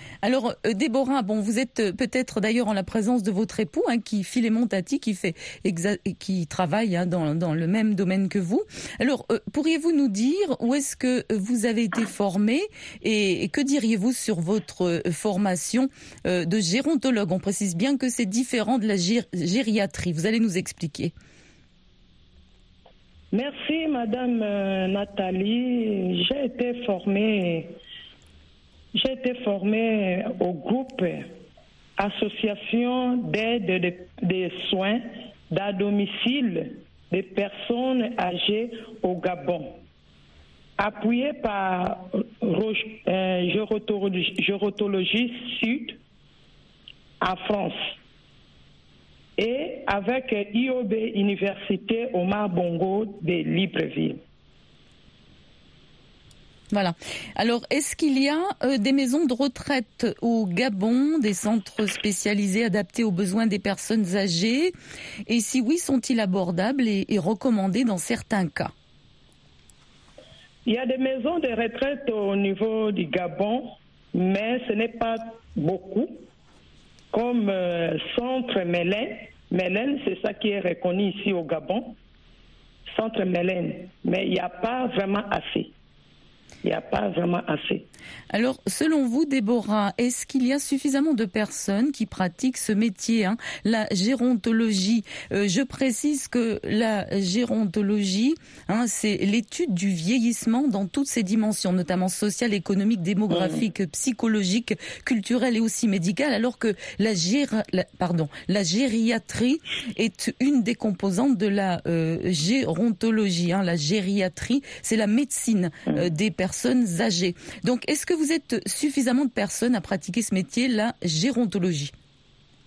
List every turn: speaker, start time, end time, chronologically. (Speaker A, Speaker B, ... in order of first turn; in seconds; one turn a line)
Speaker A: 0.2-21.1
Speaker B: 23.3-27.7
Speaker B: 28.9-31.3
Speaker B: 32.0-39.8
Speaker B: 40.8-46.0
Speaker B: 47.2-47.9
Speaker B: 49.4-54.2
Speaker A: 56.7-64.7
Speaker A: 65.3-68.7
Speaker B: 70.6-76.2
Speaker B: 77.1-82.0
Speaker B: 82.9-85.7
Speaker B: 86.6-87.8
Speaker A: 88.3-121.9
Speaker B: 103.3-103.6